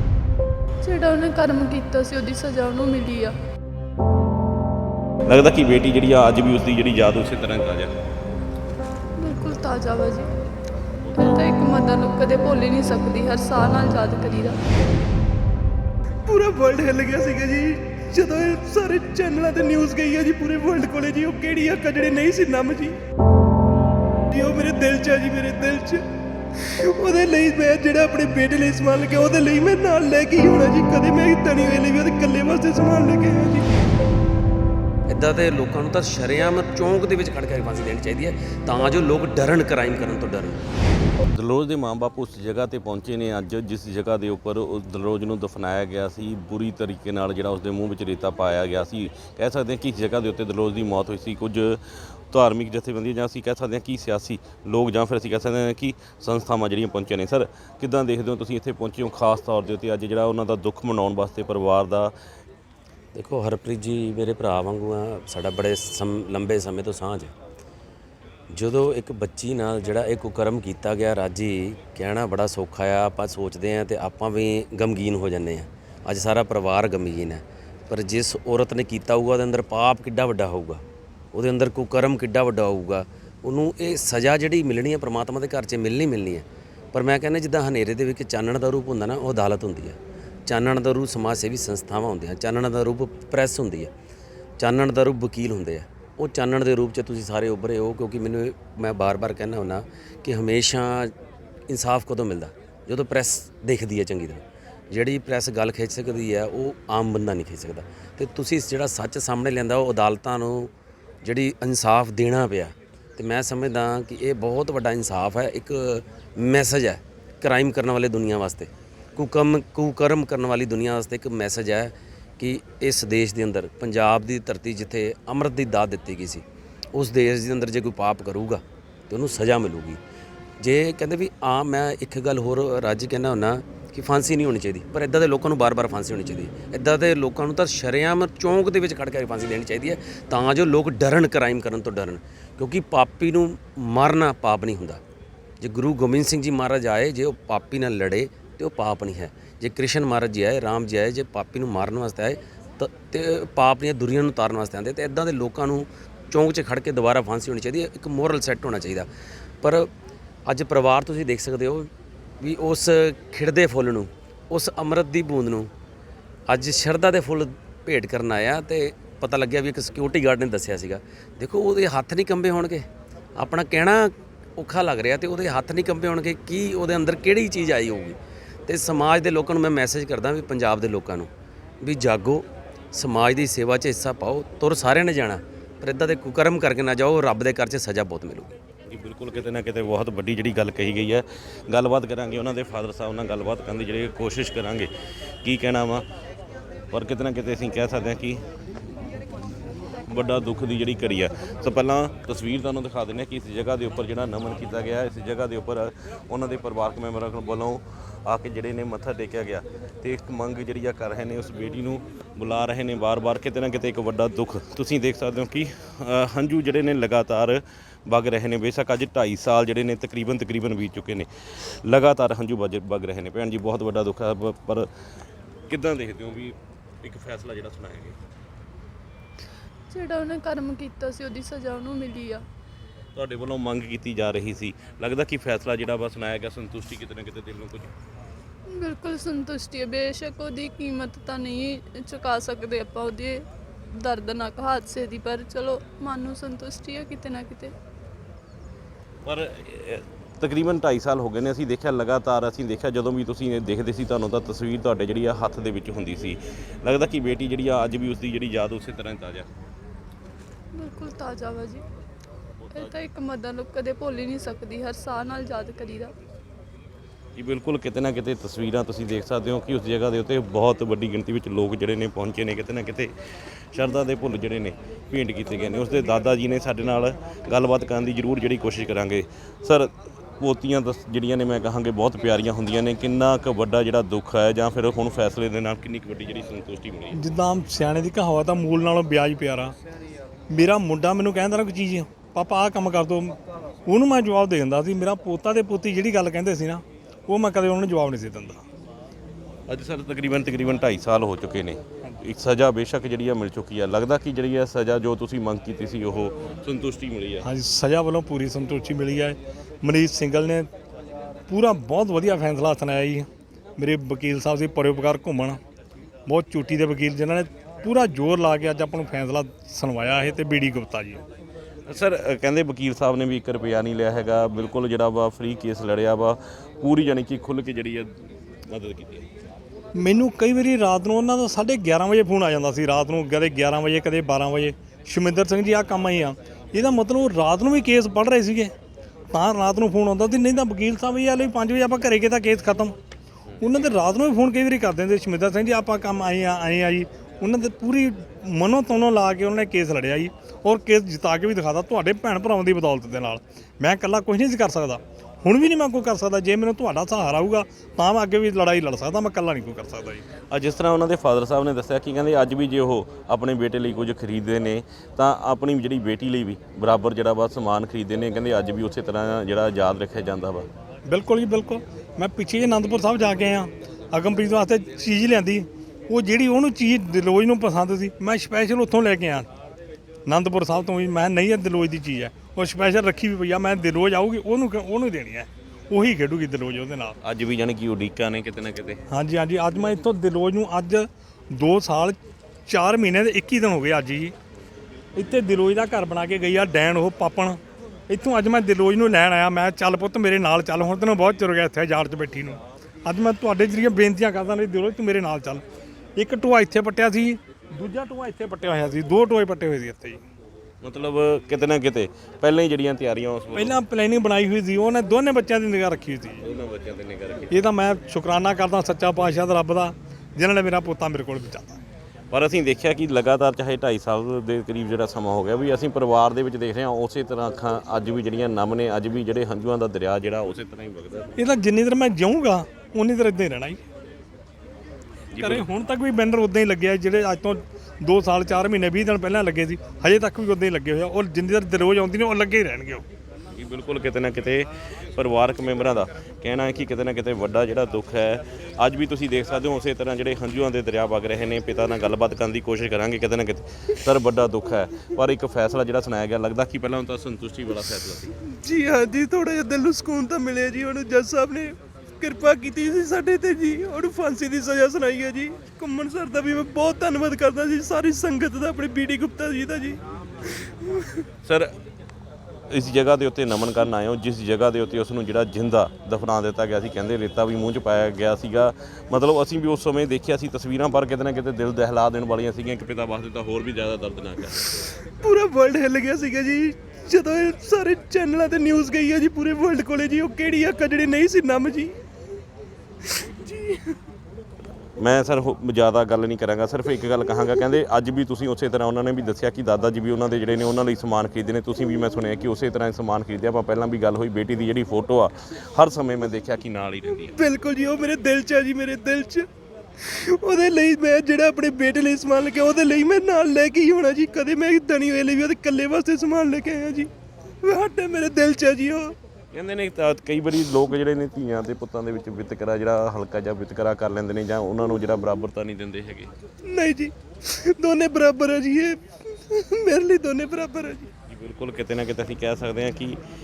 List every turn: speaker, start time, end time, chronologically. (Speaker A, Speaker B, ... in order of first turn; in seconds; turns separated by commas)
Speaker A: 0.8-3.3, Speaker B: 5.3-7.9, Speaker A: 9.2-10.3, Speaker B: 11.0-11.4, Speaker A: 11.2-14.6, Speaker C: 16.3-23.0, Speaker C: 24.3-33.6, Speaker D: 35.1-40.6, Speaker B: 41.3-62.1, Speaker D: 63.1-67.3, Speaker D: 68.5-93.9, Speaker D: 94.6-101.1, Speaker D: 101.7-110.7, Speaker D: 111.2-130.0, Speaker D: 130.6-145.0, Speaker D: 145.6-159.1, Speaker D: 159.6-159.9, Speaker D: 160.4-165.7, Speaker D: 166.5-188.5, Speaker B: 188.9-194.9, Speaker B: 195.4-196.0, Speaker B: 196.9-198.4, Speaker B: 200.1-224.9, Speaker B: 225.7-228.2, Speaker A: 229.9-232.4, Speaker B: 233.1-237.9, Speaker A: 238.7-247.7, Speaker B: 249.2-259.5, Speaker A: 260.7-261.8, Speaker B: 262.6-262.9, Speaker A: 262.7-266.1, Speaker B: 267.4-273.1, Speaker B: 273.7-287.2, Speaker E: 287.1-289.7, Speaker E: 290.5-298.6, Speaker B: 299.7-307.5, Speaker E: 307.4-310.7, Speaker E: 311.5-313.3, Speaker E: 313.8-315.6, Speaker E: 316.3-321.2, Speaker B: 321.9-328.1, Speaker B: 328.6-329.3, Speaker E: 329.9-338.7, Speaker E: 339.3-342.9, Speaker E: 343.6-360.2, Speaker B: 360.5-370.7, Speaker E: 371.1-379.5, Speaker E: 380.3-387.2, Speaker B: 387.2-389.0, Speaker E: 389.1-394.3, Speaker E: 395.1-405.6, Speaker E: 406.1-410.2, Speaker B: 410.8-413.8, Speaker E: 413.5-416.4, Speaker B: 416.4-417.6, Speaker E: 417.5-421.8, Speaker B: 422.3-431.4, Speaker E: 431.4-433.8, Speaker B: 435.3-435.6, Speaker E: 435.4-443.0, Speaker B: 443.5-458.3, Speaker C: 458.4-471.2, Speaker B: 471.4-471.7, Speaker B: 472.7-484.9, Speaker C: 485.1-491.9, Speaker C: 493.0-494.0, Speaker B: 495.0-507.4, Speaker C: 507.4-509.5, Speaker C: 510.0-517.1, Speaker C: 517.6-519.1, Speaker B: 519.5-526.3, Speaker C: 526.6-531.1, Speaker B: 531.3-533.2